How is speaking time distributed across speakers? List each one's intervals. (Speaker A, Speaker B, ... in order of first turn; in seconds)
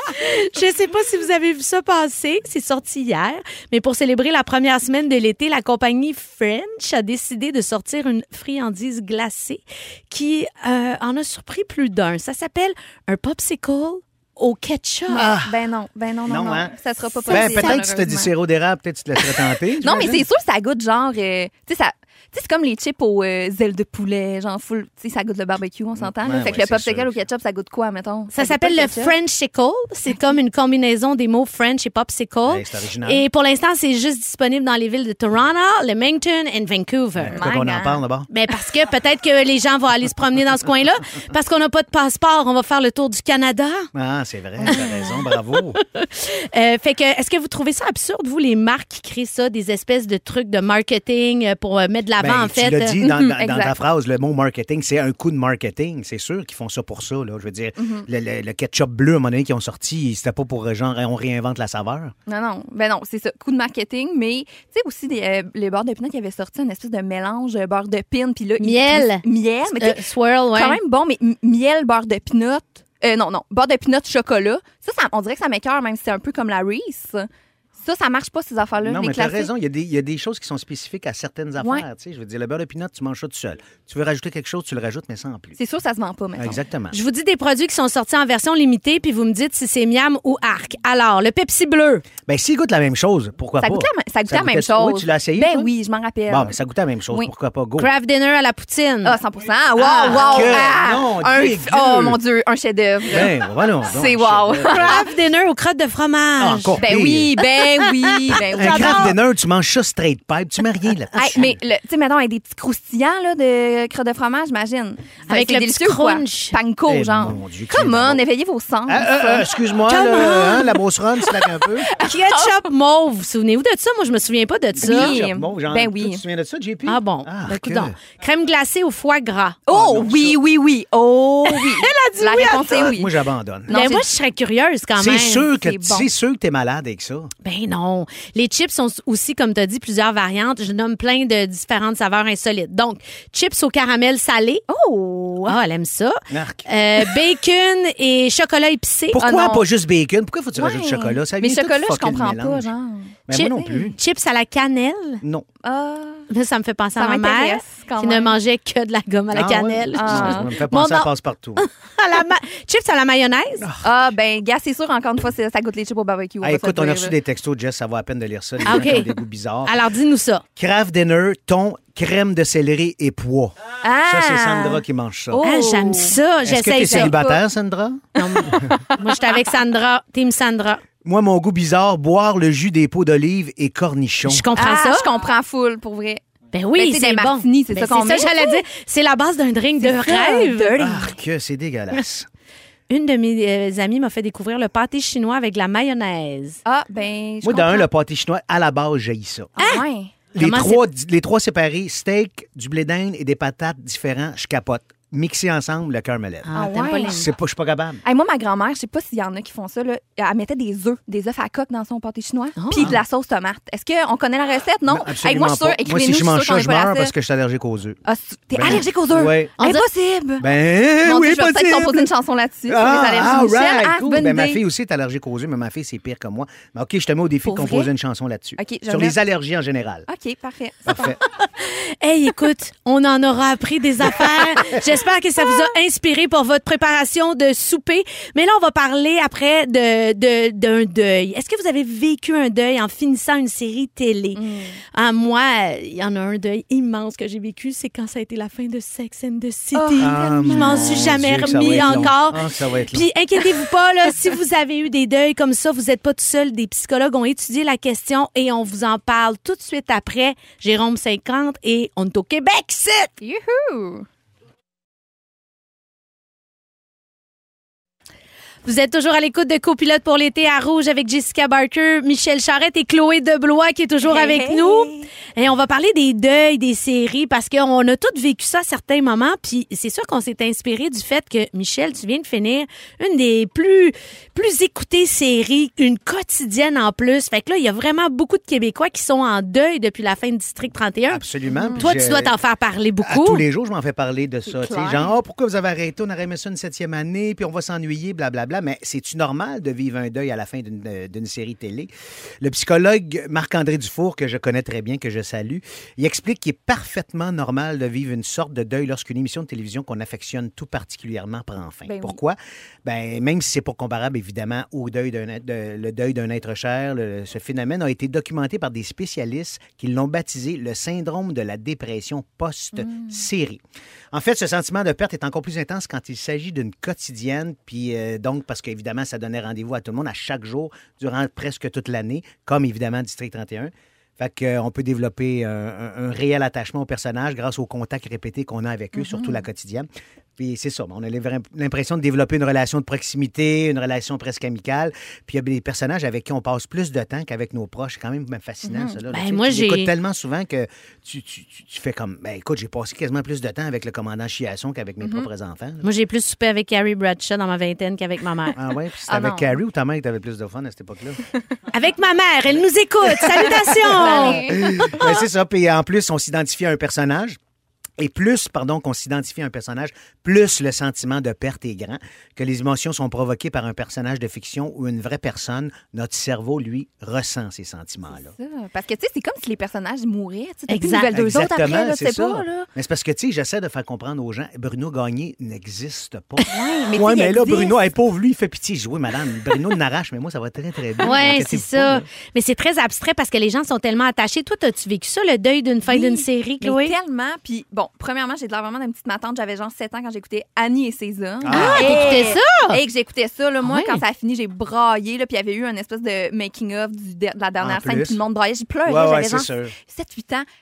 Speaker A: 0.1-15.3, 17.3-17.8, 28.3-37.5, 38.3-43.9, 44.7-45.1, 46.0-53.0, 68.6-70.8, 86.9-92.0, 97.8-99.2, 104.7-106.8, 108.3-109.2, 115.3-116.6, 119.9-120.8, 122.0-125.2, 126.9-129.6, 131.5-132.9, 133.7-135.5, 137.4-144.6, 145.4-149.2, 153.3-155.2, 156.3-163.7, 168.7-170.4, 175.4-177.2, 178.2-180.8, 184.3-185.1, 186.5-191.0, 192.9-196.6, 199.6-199.8, 200.4-200.9, 206.5-207.3, 212.6-213.0, 219.6-219.9, 231.6-244.4, 244.9-252.4, 252.9-263.1, 268.6-291.2, 291.8-293.4, 349.1-349.9, 355.8-358.6, 361.7-365.1, 380.7-381.1, 391.0-396.9, 401.5-402.8, 403.6-404.0
Speaker B: 15.1-18.3, 19.3-29.1, 37.3-38.0, 53.0-53.8, 57.8-58.1, 62.3-79.5, 81.6-81.8, 85.6-86.6, 93.6-96.6, 99.0-105.1, 106.8-109.2, 111.2-119.5, 121.9-122.6, 124.8-126.2, 129.7-133.1, 133.7-134.1, 135.4-136.1, 144.7-145.6, 149.2-149.7, 150.6-153.9, 155.6-156.3, 157.0-158.4, 159.9-160.5, 163.8-167.2, 173.8-177.4, 178.2-179.4, 184.5-186.2, 186.8-188.7, 189.8-191.1, 196.7-197.9, 199.6-200.2, 206.5-207.3, 208.0-217.1, 218.1-220.5, 221.0-224.6, 227.4-227.9, 228.6-229.2, 230.1-231.2, 244.3-244.8, 249.7-252.2, 263.2-264.1, 274.0-275.1, 291.5-291.9, 294.5-295.1, 311.9-312.2, 322.8-323.2, 338.9-339.4, 348.6-349.0, 355.0-355.3, 359.1-359.6, 363.8-365.0, 378.1-382.7, 386.4-387.8, 395.9-410.5
Speaker C: 15.1-15.6, 16.3-20.3, 26.0-27.2, 32.5-33.3, 37.2-38.3, 43.9-45.8, 52.2-62.1, 78.8-85.6, 86.4-87.0, 92.3-95.7, 96.3-97.9, 99.8-102.2, 103.1-105.1, 106.4-107.3, 108.5-111.6, 116.9-118.2, 118.9-121.9, 124.8-128.0, 129.7-130.4, 132.7-133.8, 134.9-137.3, 146.3-146.7, 149.1-152.7, 153.3-154.0, 159.3-161.7, 163.6-164.1, 166.4-169.8, 170.6-175.4, 176.4-178.6, 181.0-184.5, 190.8-192.3, 197.4-199.5, 200.3-206.5, 207.0-208.0, 212.7-213.0, 214.9-218.0, 218.6-219.5, 220.4-222.1, 222.7-230.1, 230.9-231.2, 250.0-253.1, 291.1-292.3, 293.0-323.6, 324.1-355.9, 358.6-361.2, 363.2-367.4, 368.0-378.3, 381.1-392.1, 401.4-402.3, 407.6-408.2, 408.9-409.8